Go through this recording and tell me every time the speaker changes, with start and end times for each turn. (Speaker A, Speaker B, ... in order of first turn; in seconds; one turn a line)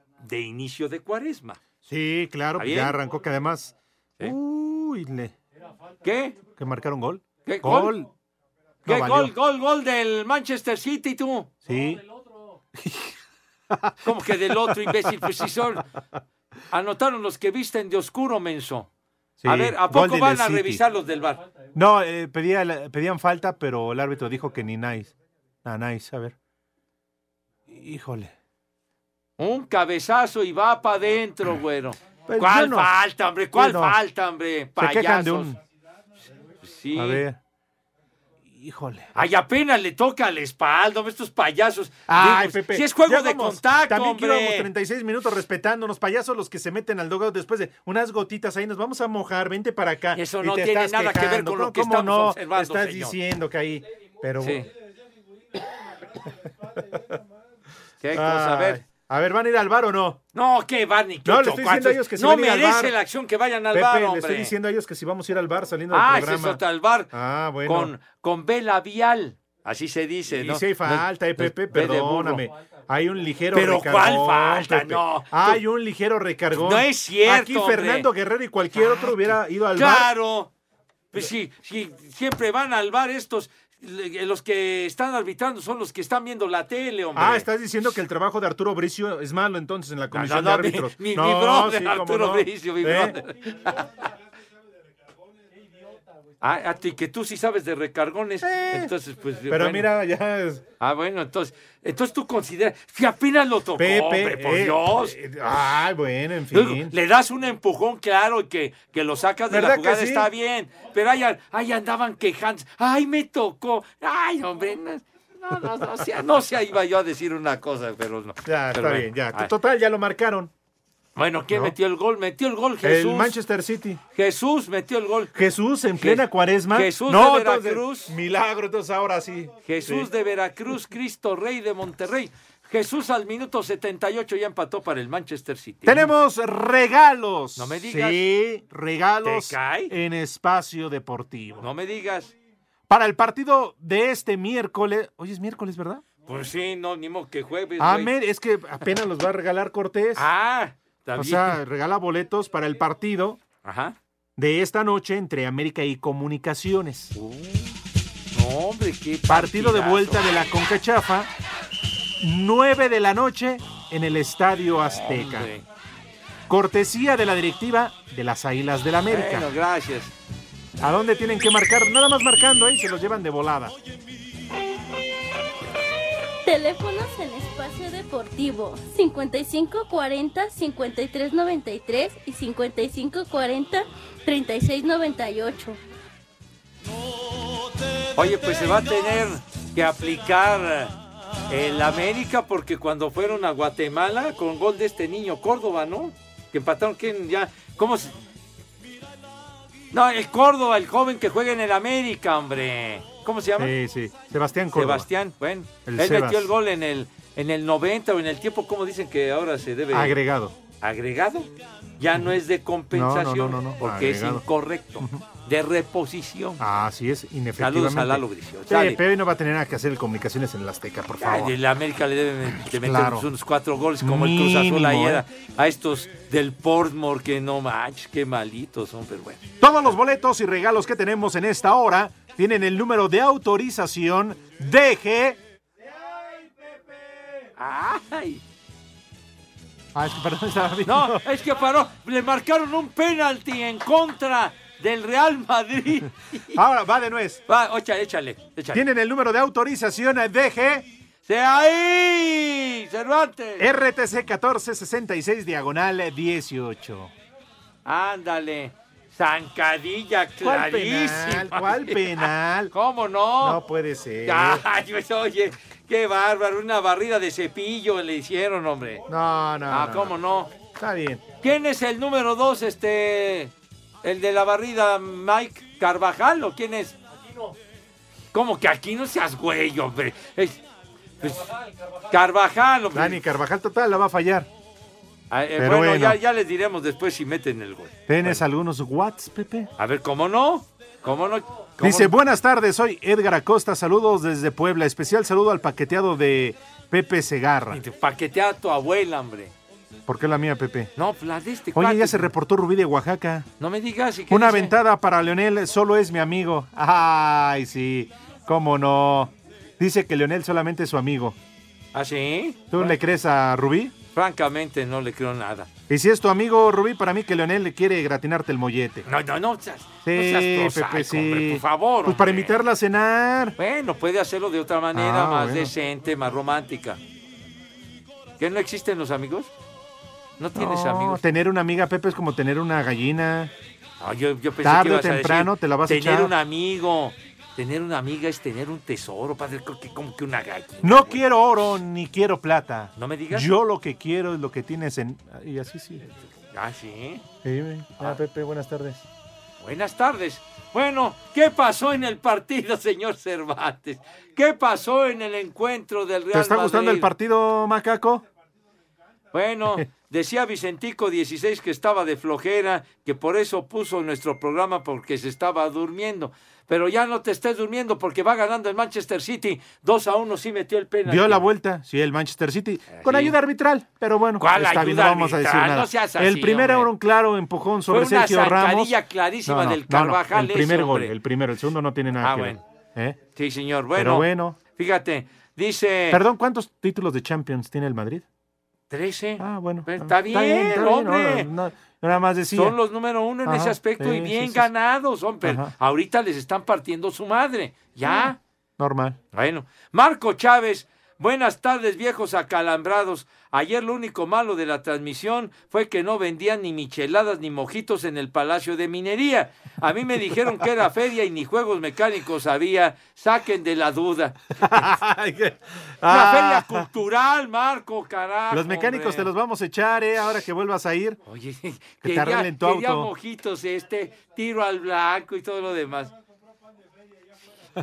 Speaker A: 0.2-1.6
Speaker B: 1.9-5.3
Speaker A: 2.6-3.0
Speaker A: 6.0-6.4
Speaker B: 6.6-8.1
Speaker A: 7.5-8.0
Speaker B: 8.9-9.3
Speaker A: 8.9-11.5
Speaker B: 11.6-12.0
Speaker B: 12.7-13.1
Speaker B: 13.7-15.1
Speaker A: 14.0-15.8
Speaker A: 16.7-18.9
Speaker B: 19.4-20.9
Speaker A: 19.4-21.4
Speaker B: 21.8-25.1
Speaker B: 25.6-26.4
Speaker B: 27.7-28.3
Speaker A: 29.4-35.5
Speaker B: 32.3-32.9
Speaker B: 33.5-34.0
Speaker B: 34.8-35.6
Speaker A: 36.6-37.2
Speaker B: 37.0-37.4
Speaker B: 38.5-39.1
Speaker A: 39.1-44.7
Speaker B: 42.1-54.6
Speaker A: 50.1-53.1
Speaker A: 54.4-54.7
Speaker A: 58.0-58.8
Speaker B: 58.1-60.2
Speaker A: 60.3-64.5
Speaker B: 61.2-63.0
Speaker B: 63.7-66.6
Speaker A: 65.9-67.1
Speaker B: 67.1-67.9
Speaker A: 67.7-72.4
Speaker B: 70.3-80.1
Speaker A: 73.5-75.6
Speaker A: 76.5-78.1
Speaker A: 78.7-80.5
Speaker A: 81.1-87.5
Speaker B: 87.2-93.2
Speaker A: 90.1-93.8
Speaker A: 96.4-99.9
Speaker B: 98.4-98.9
Speaker B: 99.5-100.6
Speaker A: 100.8-105.2
Speaker B: 103.8-106.9
Speaker A: 106.5-119.5
Speaker B: 109.5-110.3
Speaker B: 118.5-120.5
Speaker A: 121.2-123.4
Speaker B: 121.5-121.8
Speaker B: 122.8-124.0
Speaker A: 124.1-125.3
Speaker B: 125.3-130.1
Speaker A: 126.0-128.1
Speaker A: 129.7-136.1
Speaker B: 135.8-141.7
Speaker A: 137.6-138.2
Speaker A: 139.2-139.9
Speaker A: 141.6-142.3
Speaker B: 142.9-146.0
Speaker A: 146.3-148.1
Speaker B: 147.8-150.3
Speaker A: 150.2-151.6
Speaker B: 151.2-153.4
Speaker A: 153.6-154.0
Speaker B: 154.4-157.1
Speaker A: 157.2-157.7
Speaker A: 158.3-160.2
Speaker B: 159.3-161.3
Speaker B: 162.2-165.5
Speaker A: 165.0-165.7
Speaker B: 166.5-169.5
Speaker A: 169.1-170.1
Speaker B: 170.8-173.8
Speaker C: 176.4-185.8
Speaker A: 188.2-191.0
Speaker A: 191.5-198.1
Speaker A: 199.9-203.8
Speaker B: 203.6-205.1
Speaker A: 204.8-210.2
Speaker B: 205.9-206.5
Speaker B: 209.9-210.6
Speaker A: 210.8-211.5
Speaker A: 212.0-216.6
Speaker B: 212.9-214.4
Speaker B: 215.0-215.2
Speaker B: 216.6-221.6
Speaker A: 217.6-219.0
Speaker A: 221.2-229.4
Speaker B: 222.7-223.3
Speaker B: 224.0-225.2
Speaker B: 229.6-235.4
Speaker A: 237.6-238.4
Speaker B: 239.9-241.2
Speaker A: 240.9-246.6
Speaker B: 246.6-247.4
Speaker A: 247.5-248.8
Speaker B: 248.7-250.9
Speaker A: 251.3-253.7
Speaker B: 253.6-257.1
Speaker A: 257.9-263.6
Speaker B: 260.4-262.7
Speaker B: 263.4-264.6
Speaker A: 264.3-269.0
Speaker B: 269.1-270.2
Speaker A: 269.7-270.5
Speaker B: 270.7-271.2
Speaker A: 271.4-277.0
Speaker A: 278.3-280.6
Speaker A: 281.2-281.5
Speaker A: 282.1-283.2
Speaker B: 282.9-284.5
Speaker A: 285.3-288.4
Speaker B: 285.6-286.2
Speaker B: 288.1-289.7
Speaker A: 289.8-292.1
Speaker B: 291.8-297.8
Speaker A: 297.7-299.5
Speaker B: 300.1-300.9
Speaker A: 301.0-302.3
Speaker B: 301.7-303.5
Speaker A: 303.6-304.8
Speaker B: 304.3-311.4
Speaker A: 311.9-313.0
Speaker B: 312.7-313.9
Speaker A: 314.1-315.7
Speaker B: 315.9-319.1
Speaker A: 319.1-322.6
Speaker B: 320.0-323.6
Speaker A: 323.6-327.0
Speaker B: 324.9-325.7
Speaker A: 328.4-329.5
Speaker A: 330.4-331.2
Speaker B: 330.6-333.5
Speaker A: 334.0-341.3
Speaker B: 334.6-336.3
Speaker B: 340.8-346.1
Speaker A: 343.0-343.5
Speaker A: 346.3-347.2
Speaker B: 347.4-349.1
Speaker A: 349.6-357.1
Speaker B: 356.3-358.2
Speaker A: 359.3-371.5
Speaker B: 371.1-383.2
Speaker A: 372.9-373.4
Speaker A: 374.4-376.9
Speaker A: 377.9-381.1
Speaker A: 382.2-382.6
Speaker A: 383.4-386.2
Speaker B: 383.9-384.6
Speaker B: 386.1-388.2
Speaker A: 388.9-391.5
Speaker B: 389.4-392.8
Speaker A: 392.5-398.4
Speaker B: 393.4-394.7
Speaker B: 395.4-395.7
Speaker B: 398.0-399.2
Speaker A: 399.3-414.9
Speaker B: 414.6-416.9
Speaker A: 416.1-419.3
Speaker B: 418.5-421.2
Speaker A: 421.3-426.1
Speaker B: 422.0-423.1